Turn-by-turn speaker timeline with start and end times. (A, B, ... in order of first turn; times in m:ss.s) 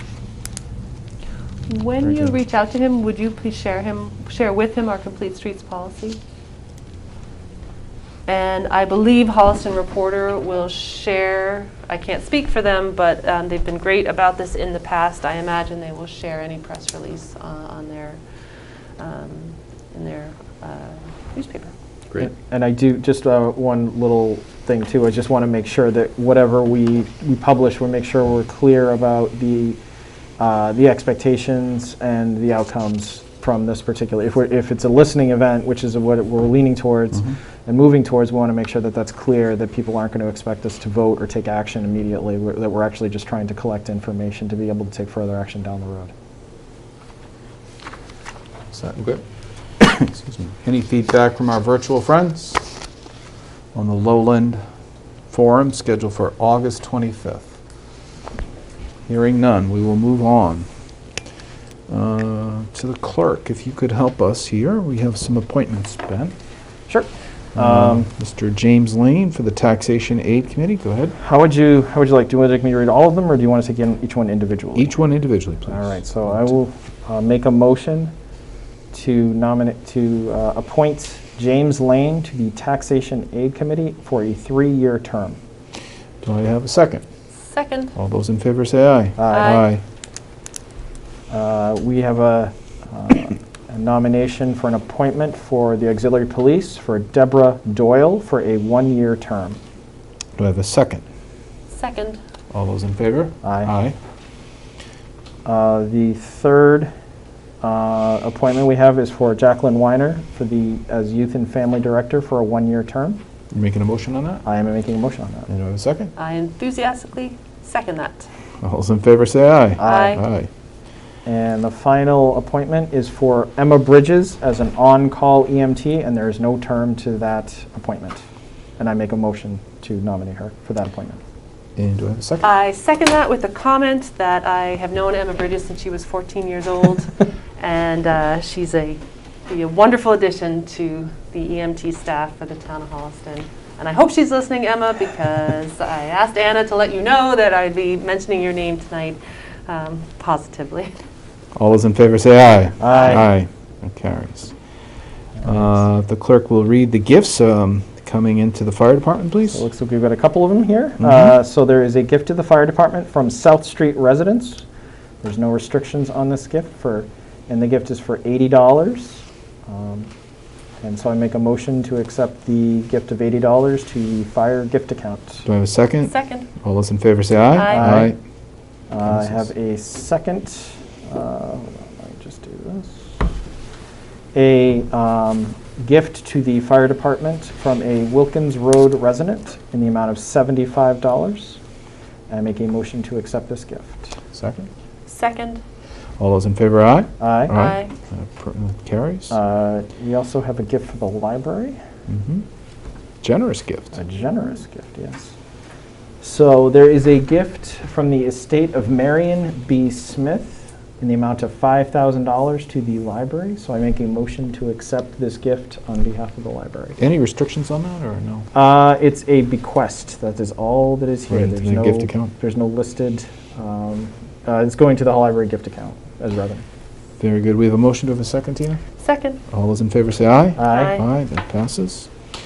0:01.7-0:06.2 A
0:02.0-0:02.3 B
0:08.3-0:18.2 A
0:19.0-0:21.7 A
0:22.2-0:29.8 C
0:30.4-0:46.1 C
0:48.7-0:49.0 B
0:49.8-0:52.7 B
0:53.7-0:54.6 B
0:55.3-0:57.5 B
0:59.1-1:00.7 B
1:01.9-1:06.4 B
1:06.9-1:08.1 C
1:07.6-1:11.2 B
1:11.2-1:14.9 C
1:14.8-1:16.5 B
1:15.7-1:18.1 C
1:18.9-1:25.4 C
1:26.2-1:27.0 B
1:27.5-1:27.9 A
1:28.0-1:29.8 B
1:29.2-1:29.6 C
1:29.3-1:29.7 A
1:31.3-1:39.6 C
1:40.4-1:41.0 B
1:41.7-1:42.2 A
1:42.5-1:44.0 B
1:43.4-1:43.7 C
1:45.4-1:46.9 C
1:47.6-1:53.2 C
1:53.5-1:54.4 B
1:54.4-1:55.5 C
1:55.5-1:56.1 B
1:56.2-1:58.3 A
1:58.6-2:00.5 B
1:59.8-2:00.2 C
1:59.8-2:00.2 A
2:01.2-2:08.2 C
2:08.8-2:11.2 C
2:11.8-2:12.4 B
2:12.4-2:30.9 A
2:31.6-2:34.5 B
2:32.8-2:33.3 C
2:35.4-2:39.6 B
2:39.5-2:44.7 C
2:41.0-2:41.3 B
2:45.2-2:50.1 C
2:50.8-2:55.4 C
2:55.5-2:58.2 B
2:56.1-2:56.5 A
2:57.5-2:58.0 A
2:57.7-2:58.1 C
2:58.9-3:03.1 C
2:59.0-2:59.5 B
3:04.3-3:11.6 C
3:12.3-3:14.2 C
3:14.3-3:14.7 B
3:15.1-3:15.6 A
3:16.2-3:19.4 B
3:17.2-3:17.5 C
3:17.5-3:17.9 A
3:19.3-3:21.8 C
3:22.1-3:22.4 B
3:23.2-3:24.0 B
3:23.9-3:25.3 C
3:26.2-3:37.0 C
3:37.0-3:38.5 B
3:38.5-3:46.6 C
3:41.3-3:42.3 B
3:47.2-3:48.8 B
3:49.0-3:49.4 A
3:49.5-3:52.1 B
3:50.6-3:51.0 C
3:50.6-3:51.0 A